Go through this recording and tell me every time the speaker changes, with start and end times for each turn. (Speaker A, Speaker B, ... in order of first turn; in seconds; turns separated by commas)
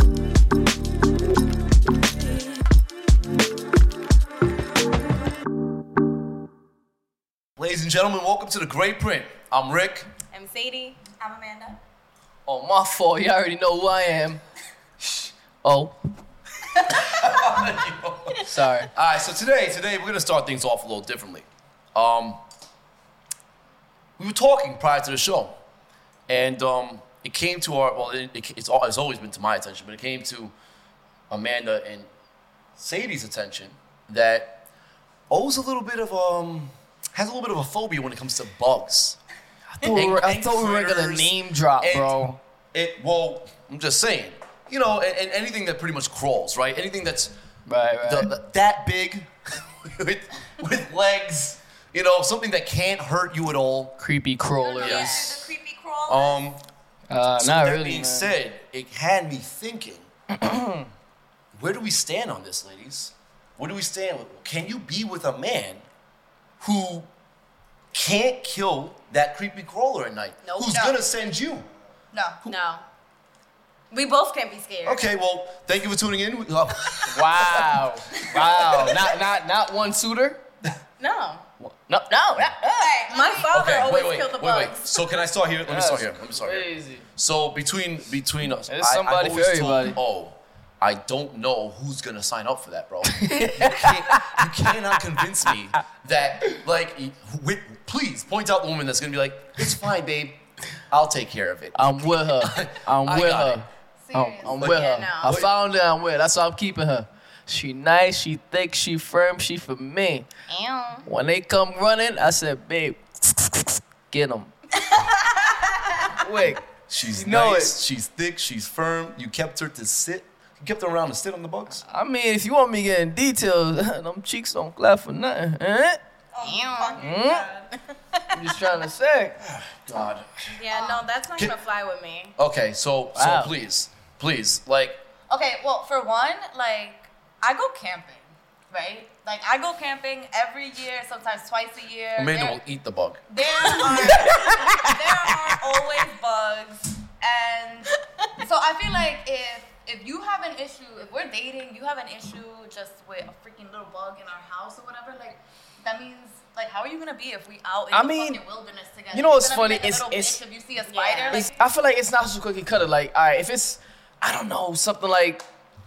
Speaker A: 7.6-10.1, Speaker B: 10.3-11.0, Speaker C: 11.2-11.8, Speaker D: 12.5-14.4, Speaker D: 15.0-16.0, Speaker A: 17.0-22.4, Speaker D: 18.4-18.9, Speaker A: 24.2-25.5, Speaker A: 26.3-30.5, Speaker A: 31.3-32.1, Speaker A: 32.8-34.6, Speaker A: 35.3-39.2, Speaker D: 39.7-42.4, Speaker A: 39.8-42.1, Speaker A: 42.7-47.3, Speaker D: 47.7-48.3, Speaker A: 48.0-54.0, Speaker D: 54.0-55.5, Speaker C: 54.6-56.4, Speaker A: 54.8-55.3, Speaker B: 54.9-55.2, Speaker A: 56.1-56.6, Speaker D: 57.1-58.3, Speaker A: 57.4-60.1, Speaker D: 60.3-60.9, Speaker A: 61.5-65.8, Speaker A: 66.6-67.1, Speaker A: 67.9-71.7, Speaker B: 70.4-70.9, Speaker C: 70.7-71.0, Speaker C: 72.1-72.4, Speaker B: 72.4-72.8, Speaker B: 73.9-75.0, Speaker A: 74.8-79.2, Speaker D: 77.1-80.4, Speaker B: 81.0-81.4, Speaker D: 81.6-82.9, Speaker C: 82.8-83.6, Speaker B: 83.0-84.9, Speaker A: 83.5-103.6, Speaker D: 85.7-87.1, Speaker D: 88.7-90.0, Speaker D: 93.1-94.6, Speaker D: 101.7-110.3, Speaker B: 104.1-105.4, Speaker A: 104.5-105.5, Speaker B: 110.5-111.1, Speaker D: 111.0-114.5, Speaker D: 116.2-117.8, Speaker A: 116.9-121.8, Speaker D: 121.8-126.0, Speaker C: 126.3-127.7, Speaker B: 126.4-127.2, Speaker D: 127.0-127.5, Speaker B: 127.9-128.2, Speaker D: 128.3-129.4, Speaker A: 129.4-130.6, Speaker B: 130.6-132.3, Speaker C: 130.7-131.0, Speaker A: 132.4-135.0, Speaker D: 133.1-133.5, Speaker C: 135.3-142.6, Speaker A: 142.2-143.2, Speaker C: 143.3-161.5, Speaker B: 143.5-144.2, Speaker D: 144.0-145.3, Speaker D: 157.9-158.4, Speaker D: 159.1-160.4, Speaker B: 160.8-161.5, Speaker D: 161.3-165.4